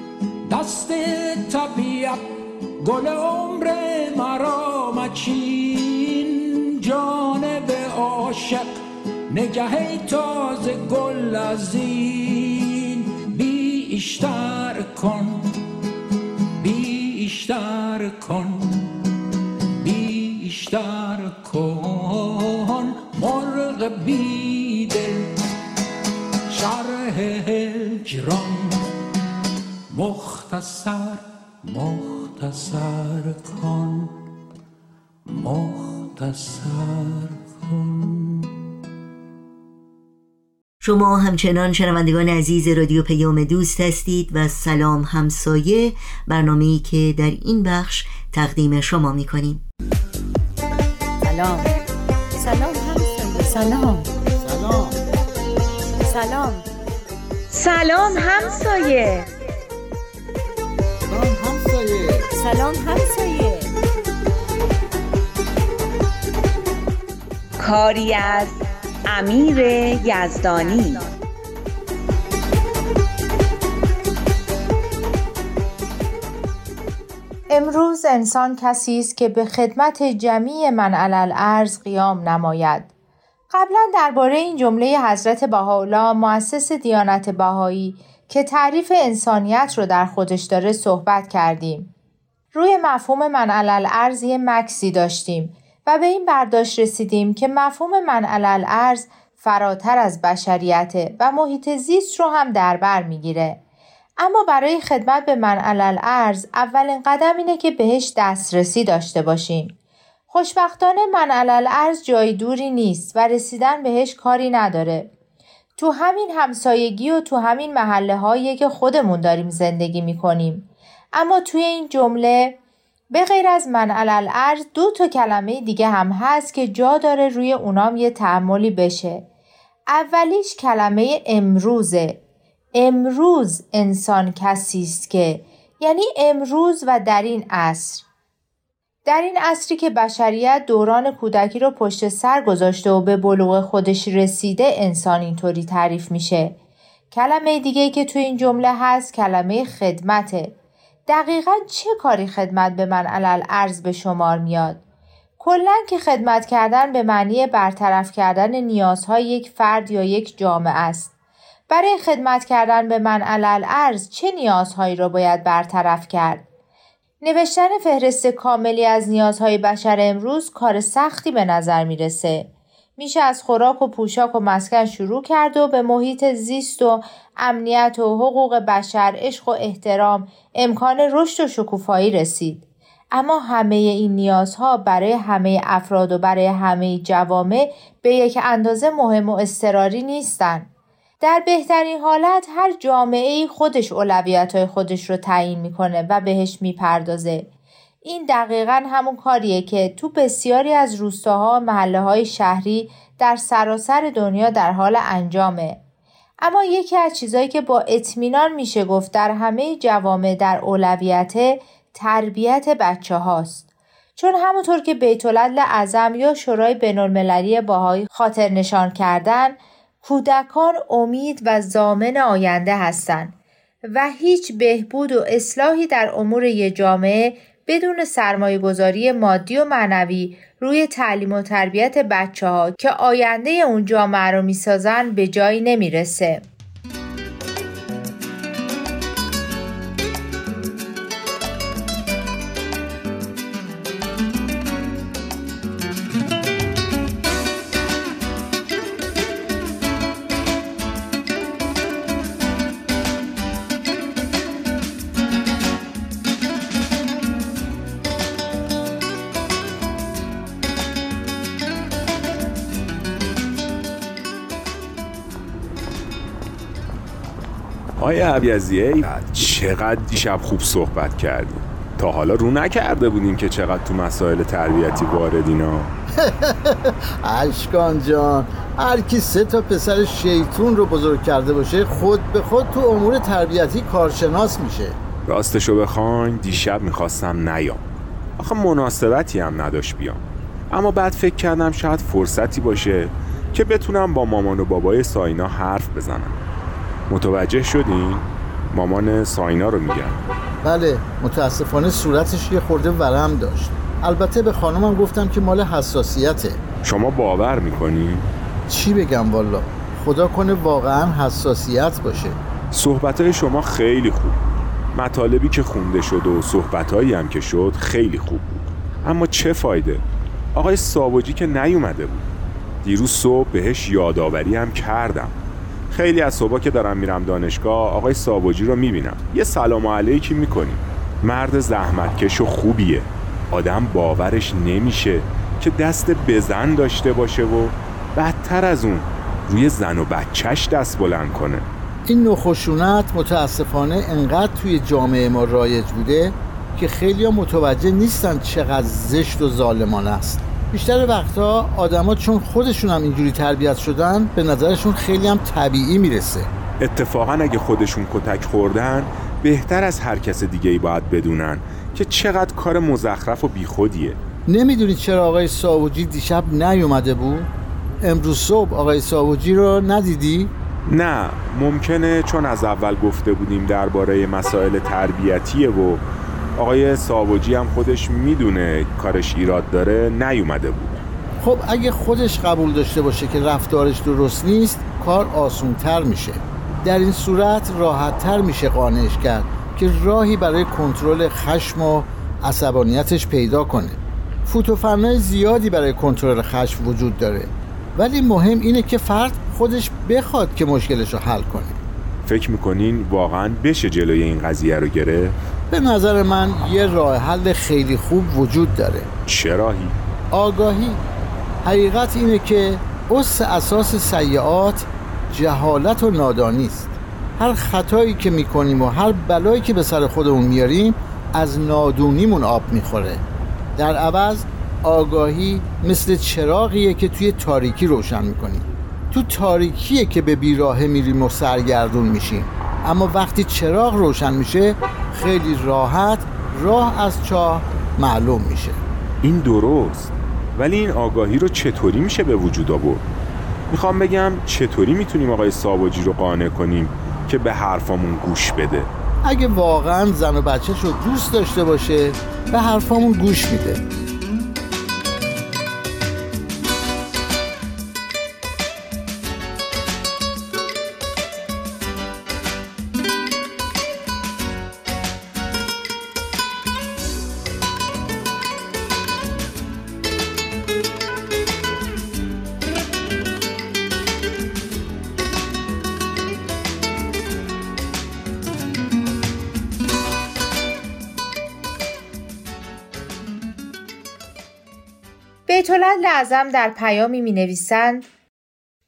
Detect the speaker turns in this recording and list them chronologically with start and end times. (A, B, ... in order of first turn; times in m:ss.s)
0:00.4-0:08.8 A
0:09.3-0:15.6 A
0:16.6-0:19.0 A
0:19.8-0:25.4 A
0:26.5-0:28.9 A
0:29.9-0:34.2 A
0:35.3-0:38.6 A
0:40.8-0:49.6 B
0:51.2-0:51.7 C
0:52.4-0:54.1 C
0:54.4-0:55.0 D
0:56.0-0:56.6 C
0:57.5-0:59.3 E
1:01.1-1:02.3 D
1:02.3-1:03.7 C
1:07.6-1:11.0 E
1:17.5-1:22.9 F
1:23.5-1:31.9 F
1:32.5-1:43.6 F
1:44.2-1:49.8 F
1:50.3-1:55.1 F
1:55.8-2:02.6 F
2:03.1-2:09.2 F
2:09.9-2:12.2 F
2:12.7-2:18.0 F
2:19.0-2:26.6 F
2:27.1-2:30.5 F
2:31.1-2:34.8 F
2:35.4-2:41.1 F
2:41.7-2:46.4 F
2:47.2-3:10.7 F
3:11.2-3:17.5 F
3:18.0-3:25.8 F
3:26.4-3:33.6 F
3:34.2-3:43.3 F
3:43.9-3:56.4 F
4:28.0-4:35.9 G
4:36.2-4:45.0 D
4:45.2-4:47.8 G
4:48.4-4:56.4 G
4:57.1-5:00.2 G
5:00.6-5:06.6 D
5:06.8-5:08.3 G
5:08.7-5:12.4 D
5:12.7-5:14.4 G
5:14.9-5:20.0 G
5:20.5-5:22.2 G
5:22.8-5:25.3 G
5:25.9-5:41.6 G
5:42.0-5:56.5 D
5:56.8-6:04.2 G
6:04.5-6:07.5 D
6:08.0-6:10.5 D
6:10.9-6:16.0 G
6:16.6-6:21.0 G
6:21.4-6:41.8 D
6:42.2-6:45.4 G
6:45.7-6:49.1 D
6:49.3-6:50.0 G
6:50.3-6:51.0 D
6:51.6-7:03.2 D
7:03.8-7:18.8 D
7:19.2-7:23.0 G
7:23.7-7:28.9 G
7:29.2-7:33.8 D
8:05.5-8:08.1 F